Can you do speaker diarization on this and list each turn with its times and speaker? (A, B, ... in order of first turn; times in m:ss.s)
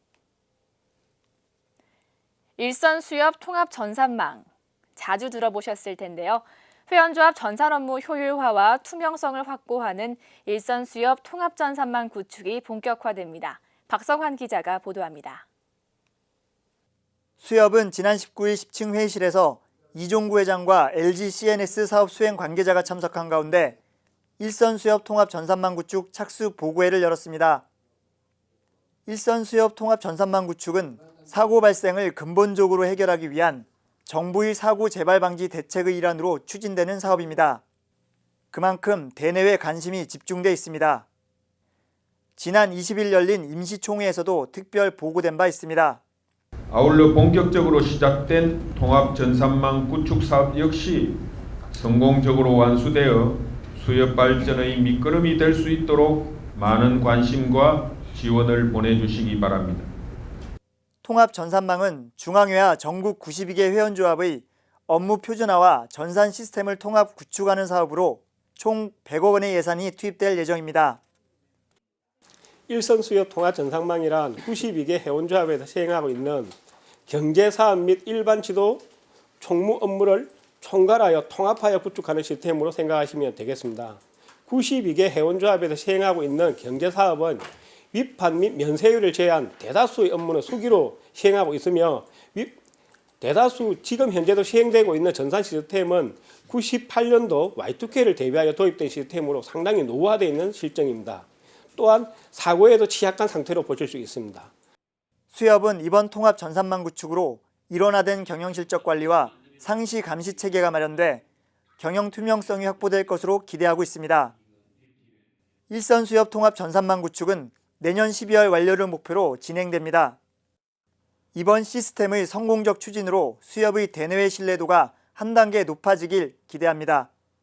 0:02.6-0:15.4 A
0:17.4-0:23.8 B
0:24.4-0:27.6 B
0:29.0-0:37.6 B
0:38.5-0:41.1 B
0:42.4-0:46.0 B
0:46.7-0:51.2 C
0:51.7-0:59.9 C
1:01.0-1:11.0 B
1:12.7-1:16.5 D
1:17.1-1:18.8 D
1:19.4-1:32.6 D
1:33.2-1:44.5 D
1:45.3-1:51.2 B
1:51.8-1:54.3 B
1:55.7-2:00.2 B
2:01.3-2:07.1 B